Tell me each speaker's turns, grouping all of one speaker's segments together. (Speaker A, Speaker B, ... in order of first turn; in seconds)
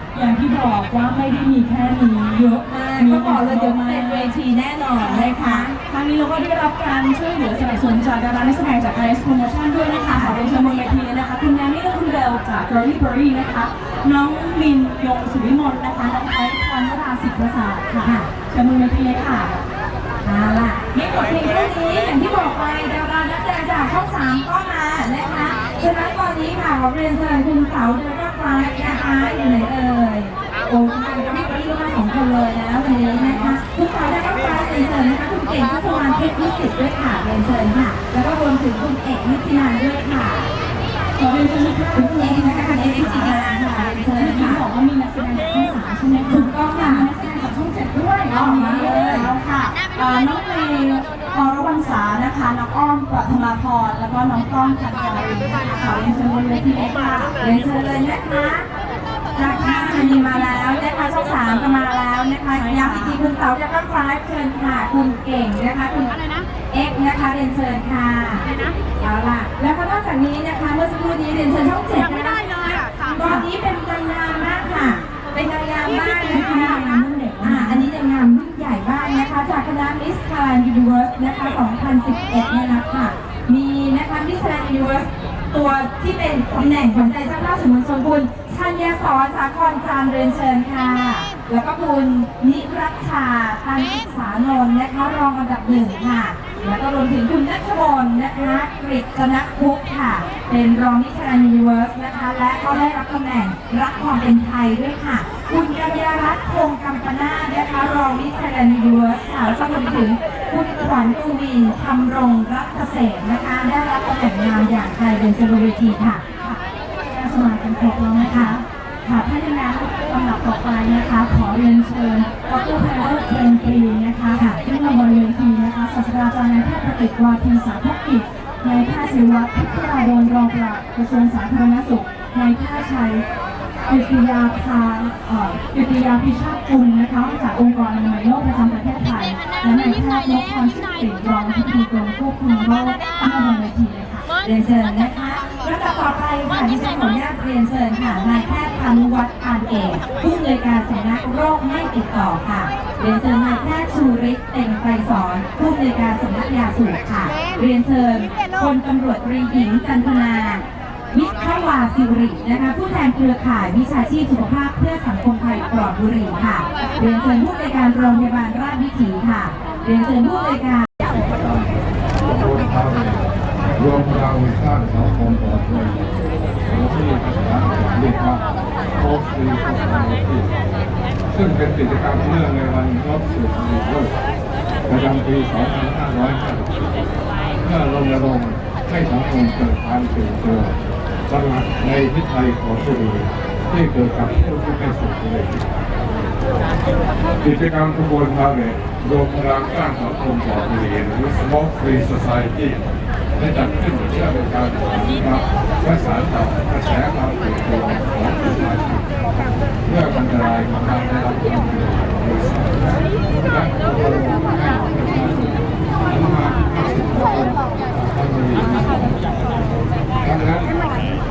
Speaker A: 0.1-4.4, 5.0-19.5, 33.2-33.6, 41.2-57.3, 59.4-60.5, 62.5-63.2, 71.9-73.5, 75.8-77.9, 116.4-133.2, 133.9-144.2
Speaker B: 2.6-5.8, 10.1-10.3, 18.0-18.3, 20.2-40.5, 41.9-44.6, 46.3-47.1, 48.3-49.3, 57.4-58.7, 59.3-66.2, 66.7-68.5, 69.0-72.5, 73.1-116.2, 118.2-118.5, 144.4-170.9
Speaker C: 171.0-180.5, 181.3-184.1, 184.9-187.0, 187.6-190.8, 191.3-195.7, 197.4-202.8, 203.3-209.1, 209.8-219.2, 220.2-220.8